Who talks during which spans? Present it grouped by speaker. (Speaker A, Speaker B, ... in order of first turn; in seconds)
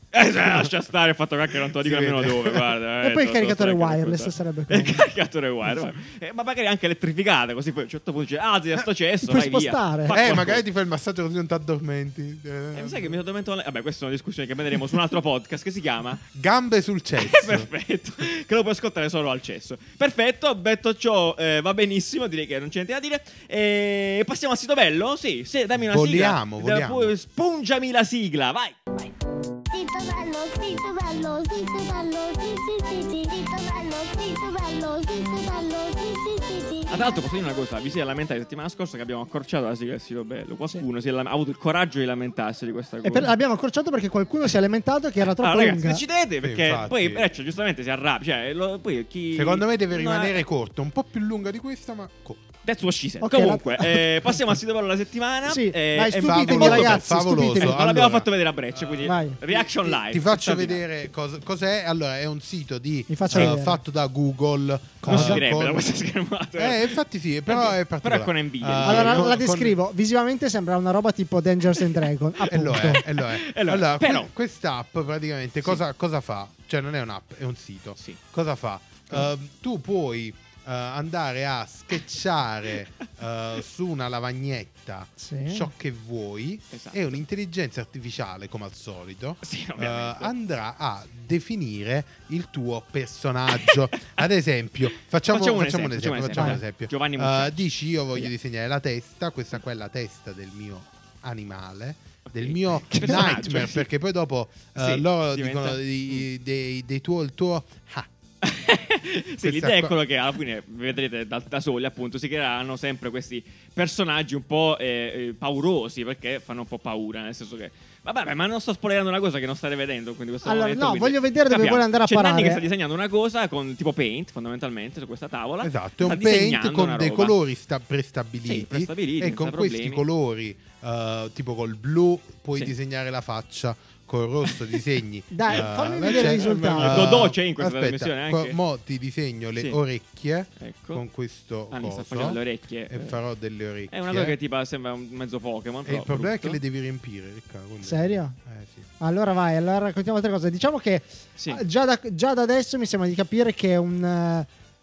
Speaker A: 0.1-10.6, 12.7-16.2, 17.2-28.8, 36.9-43.3, 45.3-50.4, 52.6-60.8, 65.1-69.3, 72.5-74.3, 86.7-87.2, 89.4-90.3, 93.7-94.2, 95.3-98.3, 102.3-103.9, 104.8-106.2, 108.4-127.3, 128.4-130.0, 135.5-138.6, 140.6-141.0, 141.7-143.2, 143.9-146.6
Speaker B: 0.3-0.7, 1.8-2.8, 10.1-13.2, 16.3-17.7, 25.8-27.1, 46.4-47.2, 49.3-52.4, 56.2-65.9, 66.6-69.8, 72.5-108.1, 109.4-110.0, 125.6-144.4, 145.9-148.9
Speaker C: 3.0-5.0, 9.2-10.2, 43.0-46.0, 53.2-54.1, 55.5-57.8, 59.0-59.4, 63.1-63.8, 65.0-65.4, 68.8-73.0, 85.2-85.7, 120.5-122.6, 135.3-137.2, 147.8-148.3, 149.0-154.5
Speaker D: 29.7-37.3